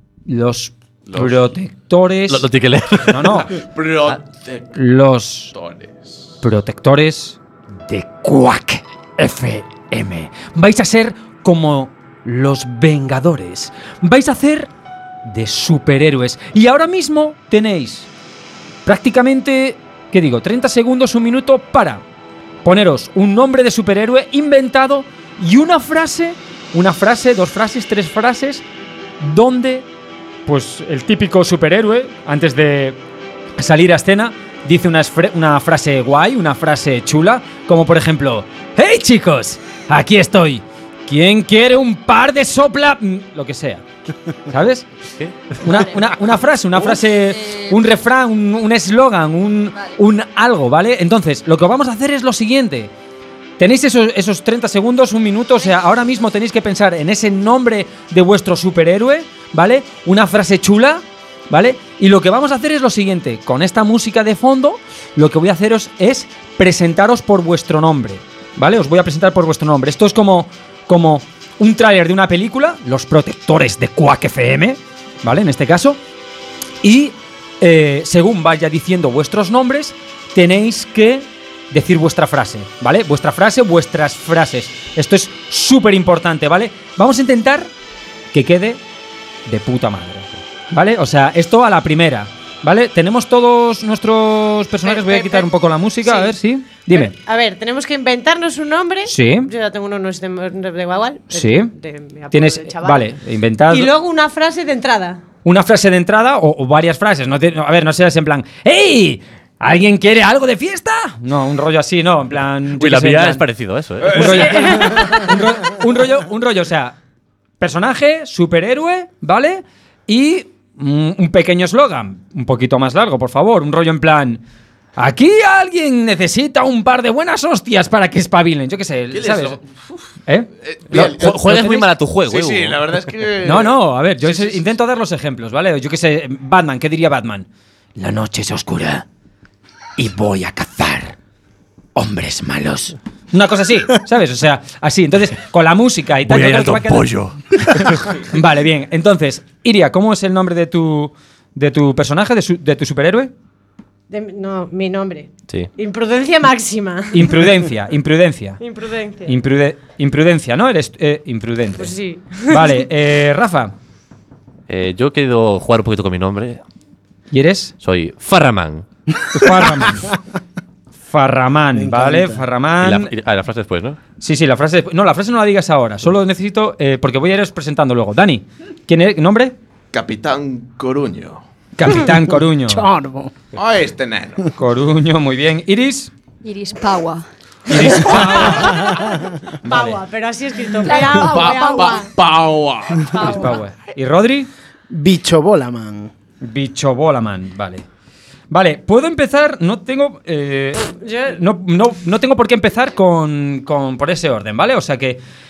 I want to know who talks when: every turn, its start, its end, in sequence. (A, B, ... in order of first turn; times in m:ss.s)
0:00.3-0:02.5 A
0:01.1-0:01.5 B
0:02.3-0:03.5 C
0:03.1-0:03.5 A
0:03.6-0:04.7 B
0:04.7-0:05.5 A
0:05.5-0:06.3 B
0:06.4-0:14.7 A
0:15.2-0:18.1 A
0:18.8-0:22.0 A
0:22.6-0:28.6 A
0:29.2-0:29.9 A
0:30.5-0:33.0 A
0:33.6-0:43.8 A
0:44.5-0:44.9 A
0:45.6-0:52.9 A
0:45.7-0:46.2 D
0:46.9-0:47.8 D
0:53.6-1:16.0 A
1:16.8-1:27.7 A
1:28.3-1:28.8 A
1:29.5-1:37.1 A
1:34.8-1:35.5 E
1:36.0-1:36.4 E
1:36.9-1:43.1 E
1:39.1-1:39.5 A
1:41.3-1:41.7 A
1:42.3-1:43.9 A
1:43.7-1:45.2 E
1:45.4-1:53.4 A
1:52.8-1:54.6 C
1:54.0-1:55.0 B
1:54.1-1:57.0 A
1:54.4-1:55.0 E
1:57.6-2:04.4 A
2:05.0-2:09.6 A
2:09.1-2:09.6 B
2:10.3-2:11.9 A
2:10.6-2:11.3 B
2:10.9-2:13.0 C
2:12.3-2:14.7 B
2:13.4-2:19.0 A
2:20.0-2:21.2 A
2:22.0-2:33.3 A
2:26.2-2:28.1 C
2:34.1-2:37.4 E
2:37.1-2:38.6 A
2:38.6-2:39.3 E
2:39.3-2:41.9 A
2:41.8-2:42.8 E
2:42.5-2:43.7 A
2:44.7-2:46.6 C
2:47.3-2:47.7 A
2:47.8-2:48.9 C
2:49.3-2:50.1 A
2:51.1-2:53.1 A
2:51.8-2:52.5 F
2:52.8-2:54.0 C
2:54.2-2:59.6 A
2:59.9-3:01.4 B
3:01.8-3:02.9 A
3:02.7-3:03.3 F
3:03.5-3:04.5 B
3:04.6-3:06.1 A
3:06.4-3:07.2 D
3:07.7-3:09.0 A
3:09.6-3:10.0 A
3:09.6-3:12.0 E
3:10.8-3:12.1 D
3:11.2-3:13.2 B
3:13.0-3:13.6 D
3:13.2-3:14.5 A
3:14.9-3:16.1 F
3:16.4-3:17.8 A
3:18.5-3:25.2 A
3:20.9-3:21.4 E